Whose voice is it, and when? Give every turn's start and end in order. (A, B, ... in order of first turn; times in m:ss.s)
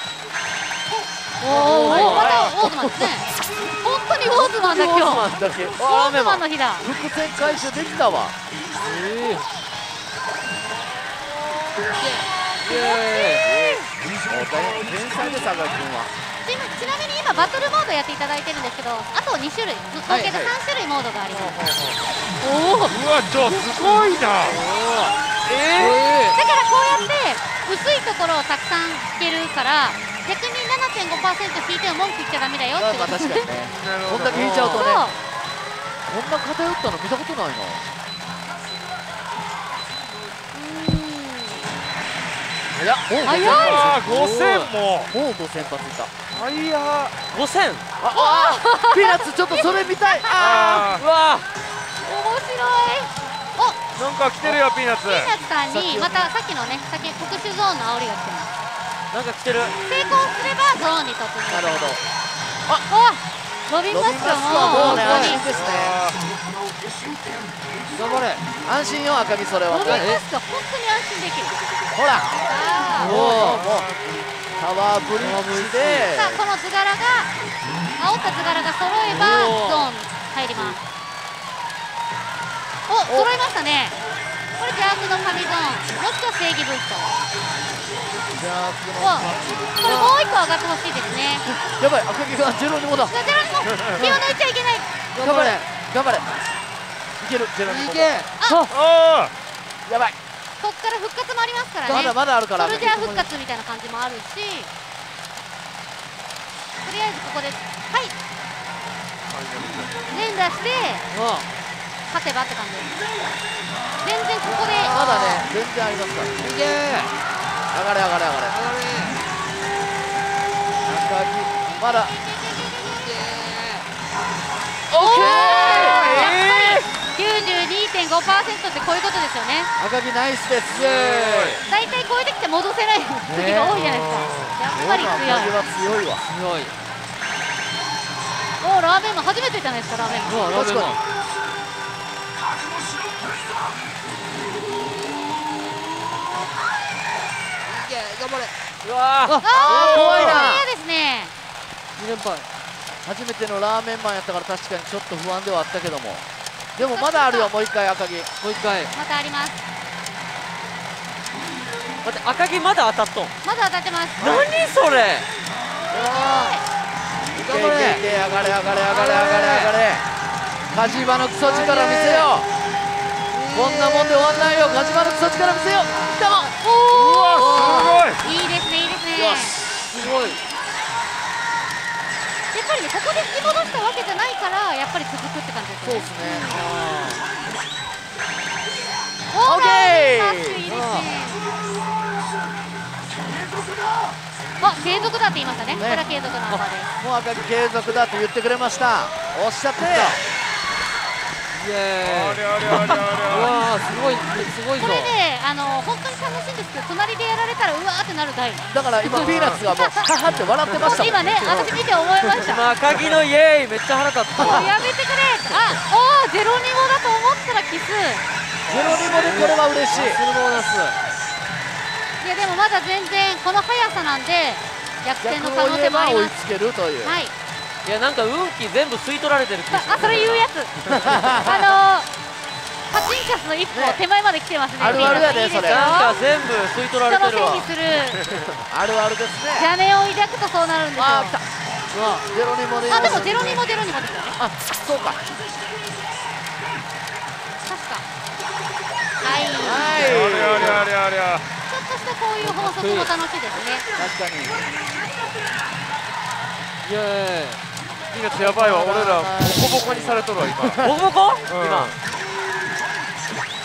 0:01.4-0:05.2 A
0:01.5-0:02.3 B
0:01.8-0:03.1 C
0:02.0-0:02.5 D
0:04.2-0:06.4 E
0:05.3-0:05.8 C
0:05.8-0:06.9 A
0:06.8-0:08.4 C
0:08.8-0:09.5 B
0:12.0-0:13.5 B
0:12.6-0:13.9 A
0:13.5-0:16.1 C
0:16.4-0:21.6 A
0:20.1-0:20.6 C
0:21.3-0:22.0 B
0:22.4-0:23.0 A
0:22.9-0:24.6 D
0:24.4-0:26.4 B
0:25.5-0:26.0 D
0:26.3-0:33.5 A
0:32.7-0:35.0 C
0:33.8-0:34.6 D
0:34.3-0:34.9 B
0:34.6-0:35.2 A
0:36.0-0:37.8 C
0:40.5-0:41.7 A
0:42.8-0:43.1 B
0:43.1-0:44.0 C
0:43.2-0:44.0 A
0:43.3-0:45.1 D
0:44.0-0:44.7 B
0:45.1-0:46.1 C
0:46.3-0:47.2 D
0:47.3-0:47.8 E
0:48.0-0:50.9 C
0:48.1-0:50.8 A
0:50.3-0:51.0 D
0:51.0-0:51.5 E
0:52.0-0:53.8 A
0:54.0-0:55.4 D
0:55.0-0:58.5 A
0:55.7-0:56.3 C
0:59.1-0:59.8 E
0:59.8-1:02.0 A
1:01.5-1:02.0 C
1:02.9-1:05.4 A
1:03.9-1:06.0 C
1:04.6-1:05.4 B
1:05.3-1:06.2 D
1:07.9-1:08.4 B
1:08.6-1:10.0 C
1:09.7-1:11.6 A
1:09.8-1:10.2 B
1:11.9-1:12.3 C
1:12.5-1:13.3 A
1:13.0-1:13.6 B
1:13.0-1:13.9 C
1:13.3-1:14.2 D
1:14.6-1:16.4 C
1:15.2-1:16.1 B
1:16.1-1:17.3 A
1:18.0-1:20.8 A
1:19.1-1:19.9 B
1:22.9-1:24.0 A
1:24.6-1:27.1 A
1:28.4-1:29.8 C
1:29.0-1:31.5 A
1:29.9-1:30.1 B
1:31.5-1:33.2 C
1:33.0-1:34.9 A
1:34.0-1:34.3 B
1:35.2-1:35.6 B
1:35.2-1:36.4 C
1:37.2-1:38.2 C
1:37.6-1:38.3 B
1:38.4-1:38.7 A
1:38.7-1:39.3 D
1:39.9-1:40.2 C
1:40.6-1:44.7 A
1:41.9-1:43.0 C
1:42.9-1:43.3 B
1:46.8-1:48.1 A
1:49.3-1:49.9 D
1:50.1-1:51.0 A
1:51.1-1:51.5 B
1:52.1-1:53.0 A
1:54.0-1:55.4 A
1:54.8-1:56.4 C
1:55.0-1:55.4 B
1:56.4-1:57.1 B
1:57.7-1:58.5 C
1:58.5-1:59.2 B
2:00.9-2:02.1 C
2:01.6-2:03.2 A
2:03.0-2:03.9 B
2:04.9-2:06.3 C
2:05.0-2:06.9 B
2:05.0-2:09.7 A
2:09.8-2:11.6 C
2:10.7-2:11.6 B
2:11.7-2:15.5 A
2:13.3-2:13.8 C
2:14.7-2:16.2 C
2:16.3-2:16.8 B
2:18.6-2:20.5 A
2:20.2-2:21.0 B
2:20.5-2:21.0 C
2:27.6-2:28.5 B
2:28.8-2:29.4 E
2:29.2-2:29.5 B
2:29.4-2:31.3 A
2:29.5-2:30.7 C
2:29.7-2:30.4 D
2:32.0-2:32.5 B
2:33.0-2:36.2 C
2:36.8-2:37.5 A
2:36.8-2:38.3 C
2:38.4-2:38.9 B
2:38.9-2:39.6 A
2:42.0-2:43.4 E
2:43.4-2:44.2 A
2:44.2-2:44.5 C
2:44.2-2:45.3 E
2:45.9-2:46.6 A
2:45.9-2:46.5 C
2:47.4-2:50.0 C
2:47.4-2:48.0 B
2:48.8-2:49.7 B
2:50.7-2:52.5 C
2:51.2-2:52.3 B
2:53.3-2:54.8 B
2:53.5-2:56.5 C
2:55.9-2:59.6 A
2:56.9-2:58.2 D
2:59.2-2:59.5 C
2:59.9-3:00.4 B
3:02.5-3:06.4 A
3:05.8-3:06.6 C
3:06.5-3:07.2 B
3:09.3-3:11.4 A
3:09.4-3:10.6 C
3:10.7-3:11.1 B
3:14.6-3:16.9 A
3:15.8-3:16.0 C
3:17.0-3:20.2 C
3:21.5-3:25.1 B
3:22.0-3:23.6 D
3:24.8-3:30.0 A
3:28.7-3:31.3 C
3:30.8-3:32.7 A
3:32.4-3:34.7 E
3:34.4-3:34.7 C
3:34.4-3:38.2 A
3:38.7-3:40.2 C
3:38.8-3:41.0 B
3:42.2-3:46.4 A
3:45.2-3:47.2 C
3:47.0-3:47.3 A
3:47.8-3:50.4 E
3:49.7-3:52.1 A
3:51.0-3:51.7 C
3:52.9-3:56.2 A
3:53.7-3:54.0 C
3:54.8-3:55.9 C
3:54.9-3:57.7 E
3:57.0-3:58.3 A
3:58.6-3:59.7 C
3:59.6-4:01.4 A
4:01.0-4:01.4 C
4:02.0-4:02.2 B
4:02.3-4:03.6 C
4:02.9-4:04.4 A
4:04.4-4:05.2 C
4:07.6-4:08.0 A
4:09.2-4:10.0 A
4:09.6-4:10.9 C
4:10.0-4:11.5 D
4:11.7-4:13.9 A
4:12.4-4:13.1 B
4:14.0-4:14.6 C
4:16.8-4:17.6 B
4:18.1-4:20.9 D
4:18.3-4:20.9 C
4:20.8-4:21.9 E
4:21.5-4:22.0 D